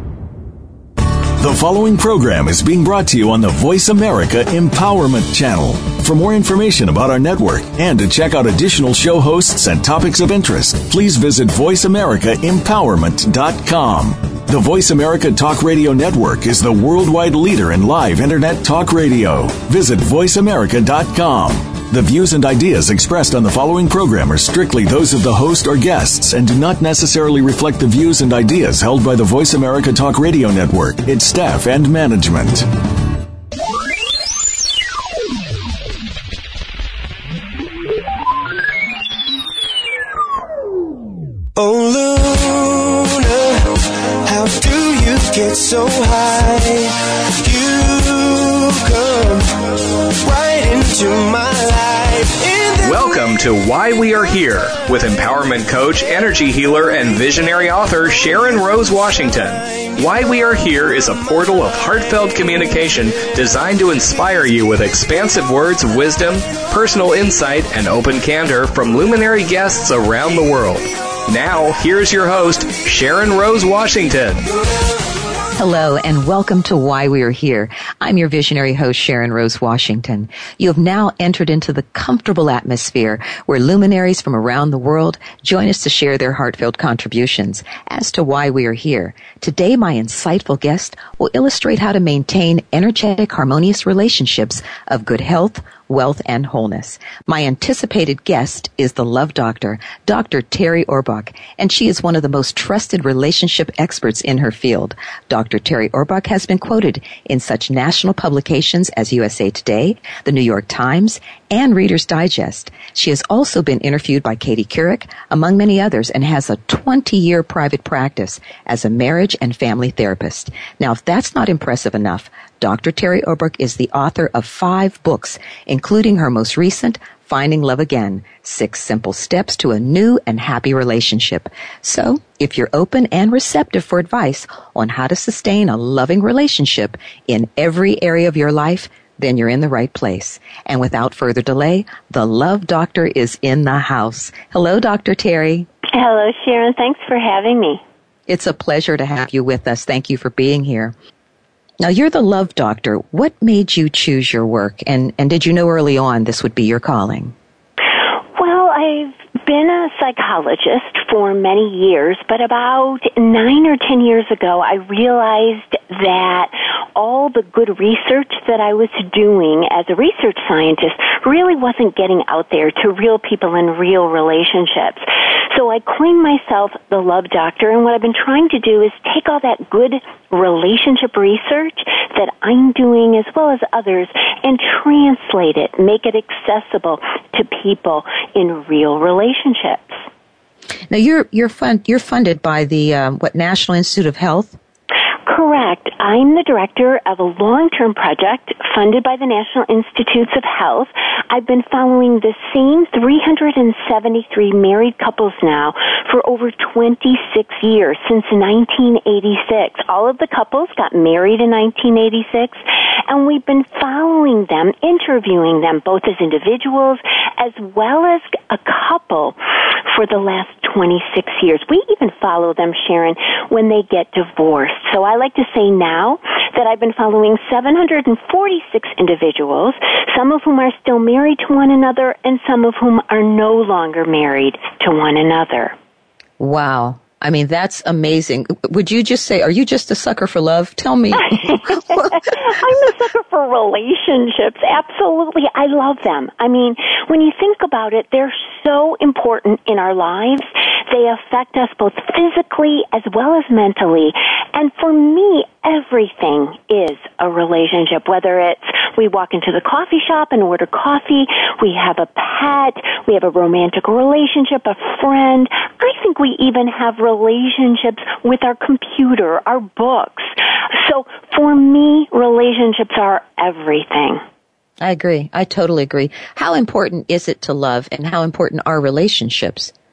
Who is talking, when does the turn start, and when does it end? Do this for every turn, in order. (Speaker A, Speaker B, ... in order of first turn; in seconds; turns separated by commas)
Speaker A: 1.4-32.7, Speaker B: 41.5-53.1, Speaker C: 52.8-74.4, Speaker D: 75.5-145.7, Speaker E: 145.9-147.8, Speaker D: 148.3-150.9, Speaker D: 151.8-157.3, Speaker E: 158.4-190.1, Speaker D: 190.9-194.6, Speaker E: 195.2-219.4, Speaker E: 219.9-235.7, Speaker D: 236.4-242.2, Speaker E: 241.3-274.2, Speaker D: 274.8-279.7